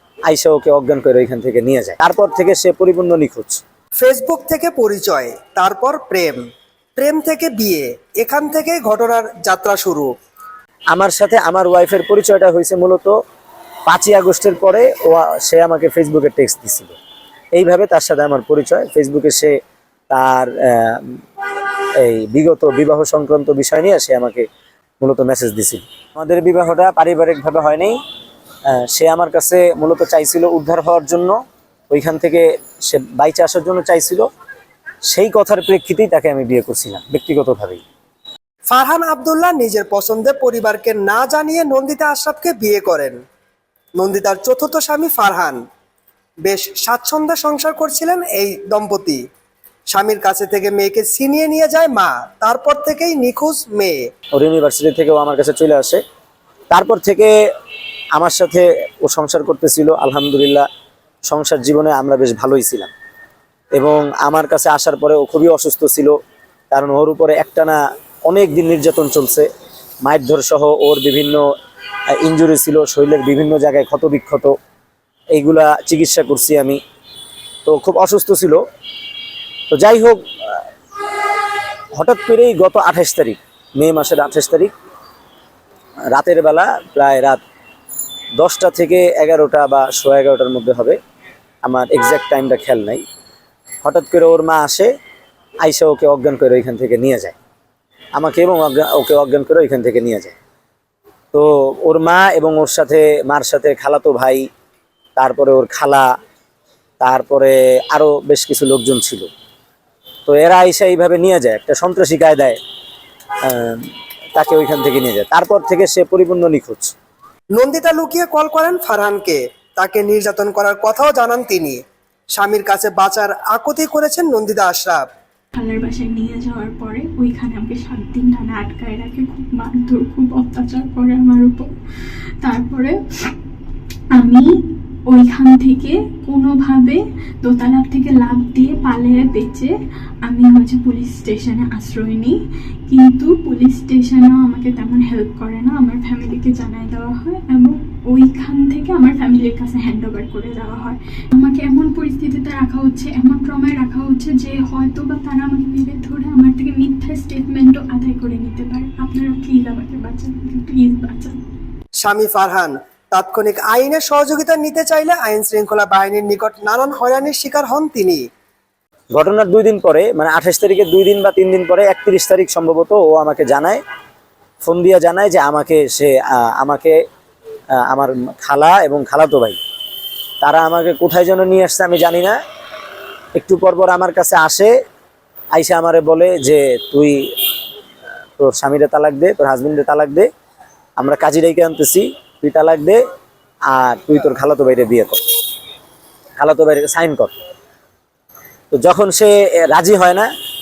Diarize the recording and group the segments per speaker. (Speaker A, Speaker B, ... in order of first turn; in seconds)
Speaker A: 0.3-3.6, 10.9-13.2, 13.9-17.0, 17.5-19.6, 20.1-21.2, 22.0-24.5, 25.0-28.0, 28.7-31.4, 31.9-34.2, 35.1-37.8, 54.3-56.0, 56.7-57.3, 58.1-60.7, 61.3-62.9, 63.7-66.2, 66.7-69.5, 70.0-71.5, 72.2-74.5, 75.3-76.8, 77.7-78.6, 79.7-80.6, 81.9-84.7, 86.1-87.4, 88.4-91.0, 91.6-93.0, 93.8-94.9, 95.6-97.3, 98.2-100.3, 101.3-104.5, 105.2-106.1, 107.0-109.3, 110.3-112.6, 113.4-116.9, 169.1-173.8, 174.6-177.0, 177.8-179.6, 180.4-182.4, 183.3-184.7, 185.5-187.3, 188.4-190.3, 191.0-193.0, 193.7-195.2, 196.4-197.3, 198.7-200.3
Speaker B: 4.0-6.4, 7.0-10.1, 38.7-43.2, 44.0-45.6, 46.4-49.2, 49.9-54.1, 117.5-121.8, 122.3-125.0, 162.0-168.2
Speaker C: 125.5-131.7, 132.4-133.3, 134.2-134.5, 135.1-139.7, 140.2-142.4, 142.9-161.4